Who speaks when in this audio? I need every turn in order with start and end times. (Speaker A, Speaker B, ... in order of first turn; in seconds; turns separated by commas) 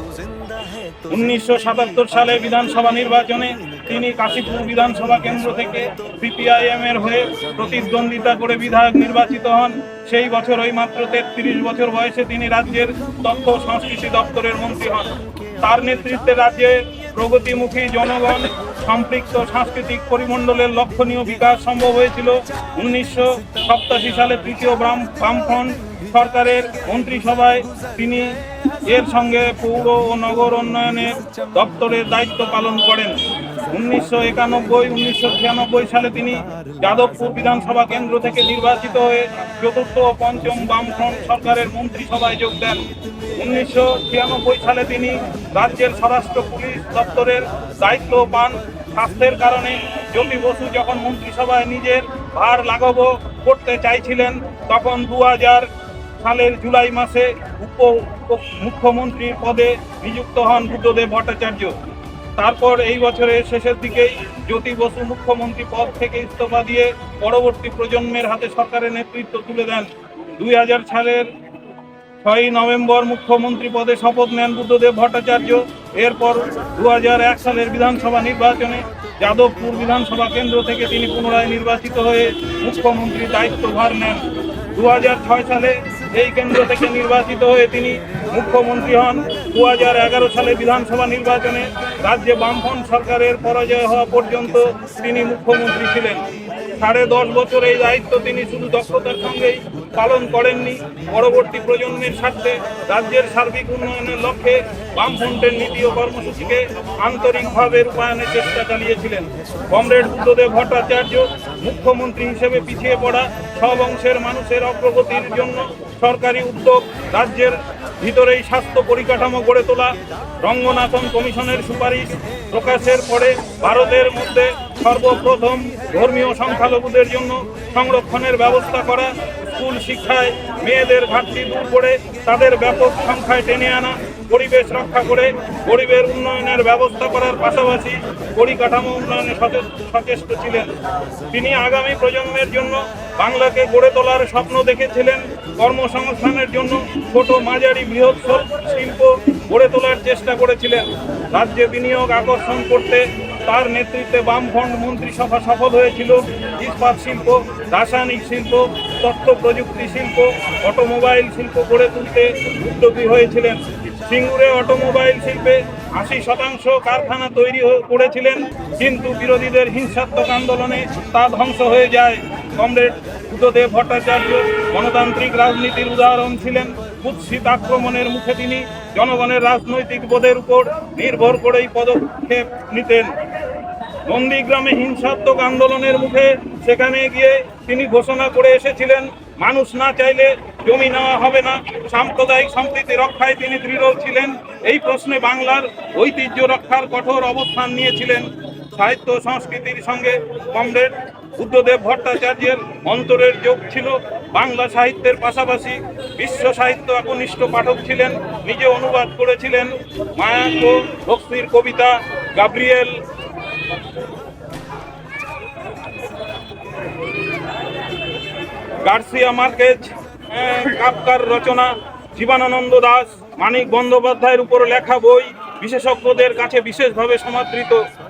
Speaker A: 1.1-42.8, Speaker A: 43.4-55.7, Speaker A: 56.2-61.7, Speaker A: 62.4-71.3, Speaker A: 72.2-140.7, Speaker A: 141.3-183.2, Speaker A: 184.0-213.0, Speaker A: 218.8-227.8